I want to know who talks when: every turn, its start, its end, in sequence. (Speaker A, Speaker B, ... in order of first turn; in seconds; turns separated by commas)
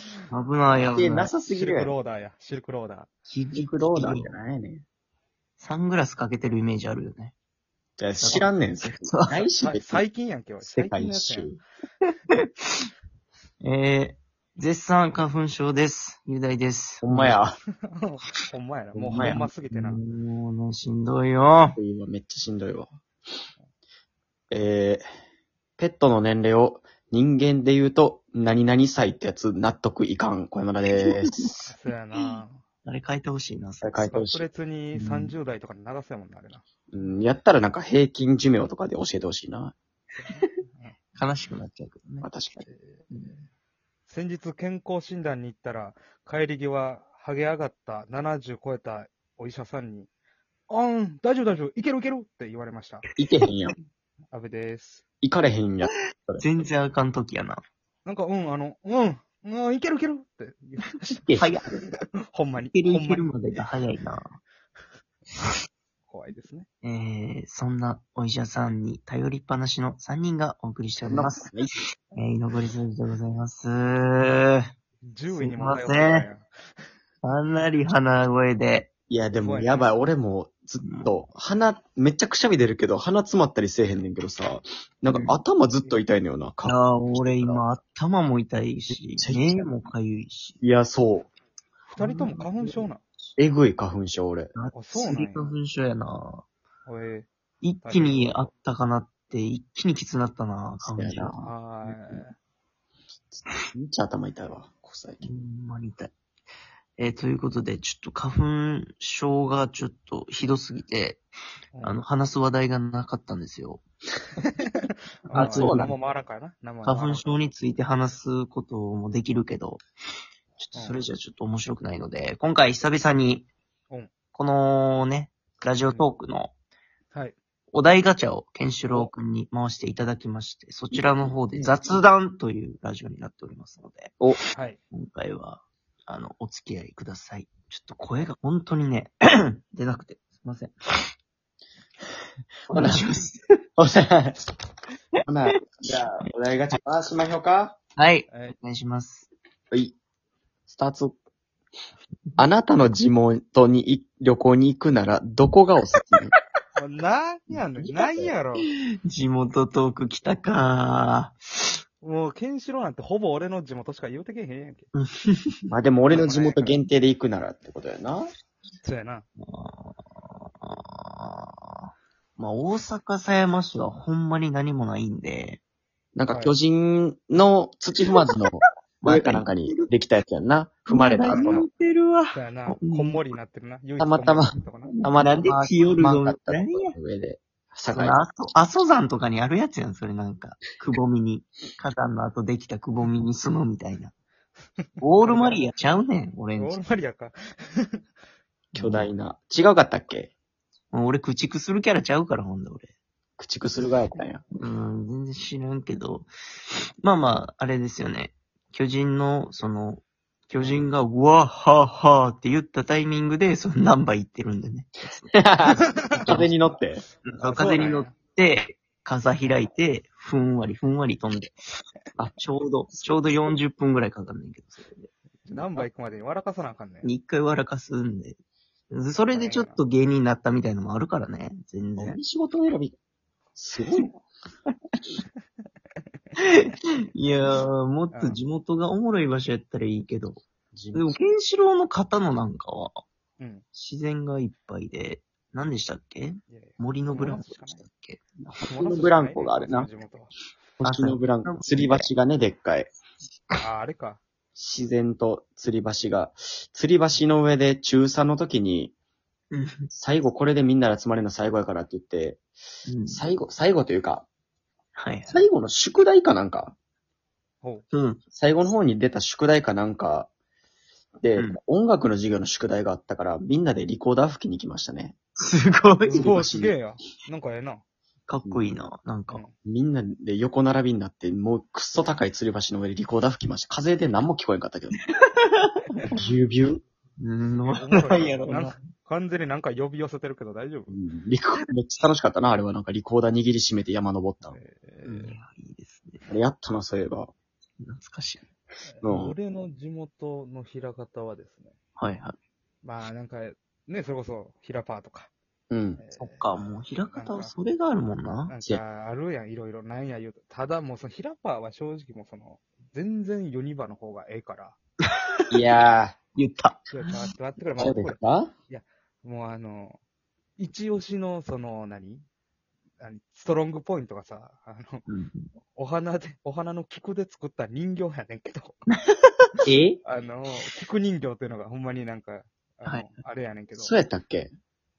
Speaker A: 0.3-1.3, Speaker B: 0.7-1.0, Speaker C: 0.9-1.9, Speaker B: 1.5-3.1, Speaker A: 3.3-4.3, Speaker C: 3.5-4.8, Speaker A: 5.6-7.3, Speaker C: 8.0-10.0, Speaker A: 8.2-9.5, Speaker B: 9.6-11.6, Speaker C: 10.6-11.6, Speaker A: 13.6-17.4, Speaker C: 17.0-17.6, Speaker B: 17.9-20.0, Speaker C: 18.9-19.4, Speaker A: 19.1-21.8, Speaker C: 21.8-22.9, Speaker C: 24.5-25.0, Speaker C: 25.8-31.6, Speaker A: 31.0-31.6, Speaker B: 31.7-32.6, Speaker A: 32.8-34.2, Speaker C: 33.8-34.5, Speaker B: 34.0-36.6, Speaker A: 34.9-35.4, Speaker C: 36.9-39.7, Speaker B: 40.2-41.0, Speaker A: 41.1-42.3, Speaker C: 42.2-42.7, Speaker B: 42.6-43.4, Speaker B: 44.1-50.1, Speaker B: 50.7-53.0, Speaker C: 53.2-53.7, Speaker B: 54.3-55.0, Speaker C: 55.2-56.4, Speaker A: 56.4-57.6, Speaker B: 58.0-63.3, Speaker C: 61.2-61.6, Speaker A: 61.4-61.7, Speaker A: 62.6-64.3, Speaker B: 66.1-66.7, Speaker A: 66.8-71.5, Speaker C: 71.0-71.7, Speaker A: 72.1-74.7, Speaker B: 75.0-76.5, Speaker A: 75.3-76.2, Speaker A: 77.2-78.9, Speaker C: 79.1-87.7, Speaker B: 79.3-79.9, Speaker A: 80.8-81.2, Speaker A: 85.1-85.3, Speaker A: 86.6-90.6, Speaker C: 89.2-89.7, Speaker C: 90.6-91.3, Speaker B: 91.9-93.0, Speaker A: 92.0-92.8, Speaker C: 93.4-94.5, Speaker A: 94.5-96.5, Speaker B: 94.7-95.5, Speaker B: 96.8-97.3, Speaker A: 97.6-101.3, Speaker B: 97.8-98.4, Speaker C: 100.8-102.0, Speaker B: 101.4-102.3, Speaker C: 103.3-105.3, Speaker A: 105.2-106.1, Speaker A: 107.0-111.2, Speaker B: 111.7-112.0, Speaker A: 111.8-113.8, Speaker B: 114.6-117.3, Speaker A: 115.3-115.9, Speaker C: 115.3-115.9, Speaker A: 116.8-119.8, Speaker A: 120.6-123.5, Speaker B: 120.7-121.0, Speaker A: 124.3-126.5, Speaker B: 125.7-126.1, Speaker A: 127.7-134.2, Speaker B: 128.9-129.1, Speaker C: 130.9-131.7, Speaker B: 134.5-134.8, Speaker A: 134.9-140.7, Speaker A: 142.7-143.4, Speaker C: 142.7-143.1, Speaker C: 143.8-144.4, Speaker C: 145.2-147.8, Speaker A: 145.5-145.8, Speaker A: 148.0-149.3, Speaker B: 148.3-148.6, Speaker C: 150.7-151.2, Speaker C: 152.4-156.3, Speaker B: 156.8-158.7, Speaker C: 157.5-158.3, Speaker A: 159.1-161.7, Speaker B: 162.0-164.9, Speaker A: 164.9-165.6, Speaker C: 165.7-168.3, Speaker B: 166.1-166.8, Speaker B: 168.8-169.2, Speaker A: 169.4-175.6, Speaker C: 176.1-181.7, Speaker B: 176.3-176.5, Speaker A: 179.0-179.9, Speaker A: 180.9-183.2, Speaker B: 181.2-181.6, Speaker B: 182.3-184.9, Speaker C: 184.0-188.2, Speaker A: 185.1-186.9, Speaker A: 187.9-194.1, Speaker B: 194.8-195.7, Speaker A: 195.0-196.8, Speaker B: 196.5-198.0, Speaker A: 198.7-199.1, Speaker C: 198.8-200.3, Speaker A: 200.9-202.9, Speaker C: 203.4-204.4, Speaker A: 204.6-206.3, Speaker A: 207.0-215.4, Speaker B: 210.6-210.8, Speaker C: 215.3-217.0, Speaker A: 216.1-216.5, Speaker A: 217.2-221.6, Speaker B: 217.4-218.1, Speaker A: 222.4-225.8, Speaker B: 225.4-227.1, Speaker A: 227.0-228.4, Speaker A: 228.9-232.2, Speaker B: 229.3-229.8, Speaker C: 232.0-232.9, Speaker C: 233.6-234.1, Speaker A: 236.4-240.4, Speaker B: 238.1-238.4, Speaker C: 240.7-241.1, Speaker A: 240.9-242.9, Speaker B: 243.4-243.6, Speaker A: 243.7-248.2, Speaker B: 246.5-247.9, Speaker C: 248.4-249.9, Speaker B: 248.7-250.3, Speaker C: 250.8-252.9, Speaker A: 250.8-252.1, Speaker B: 253.6-254.2, Speaker C: 254.5-258.9, Speaker A: 259.5-259.9, Speaker C: 259.9-262.4, Speaker A: 262.9-263.2, Speaker C: 263.1-264.2, Speaker A: 264.9-265.4, Speaker C: 265.3-266.7, Speaker A: 267.9-268.2, Speaker C: 268.3-270.3, Speaker C: 271.2-275.1, Speaker A: 275.4-276.3, Speaker B: 276.0-277.8, Speaker C: 276.1-276.7, Speaker A: 278.3-279.4, Speaker C: 279.6-285.0, Speaker A: 285.1-286.0, Speaker C: 286.1-286.8, Speaker A: 287.2-288.8, Speaker B: 287.6-290.9, Speaker C: 290.9-294.6, Speaker B: 294.4-295.4, Speaker A: 295.0-296.2, Speaker C: 296.3-297.3, Speaker A: 297.8-298.4, Speaker B: 298.9-301.7, Speaker C: 299.0-299.3, Speaker A: 302.0-302.4, Speaker B: 302.8-305.3, Speaker C: 305.7-306.0, Speaker B: 306.0-306.5, Speaker A: 306.1-308.6, Speaker B: 307.1-307.5, Speaker B: 308.5-314.8, Speaker C: 315.5-316.2, Speaker A: 316.4-317.1, Speaker B: 316.9-320.0, Speaker C: 317.8-318.5, Speaker B: 320.6-322.2, Speaker B: 323.0-325.0, Speaker A: 325.1-325.5, Speaker B: 325.7-328.8, Speaker A: 328.9-329.2, Speaker C: 329.6-330.0, Speaker B: 330.0-333.9, Speaker C: 333.8-334.5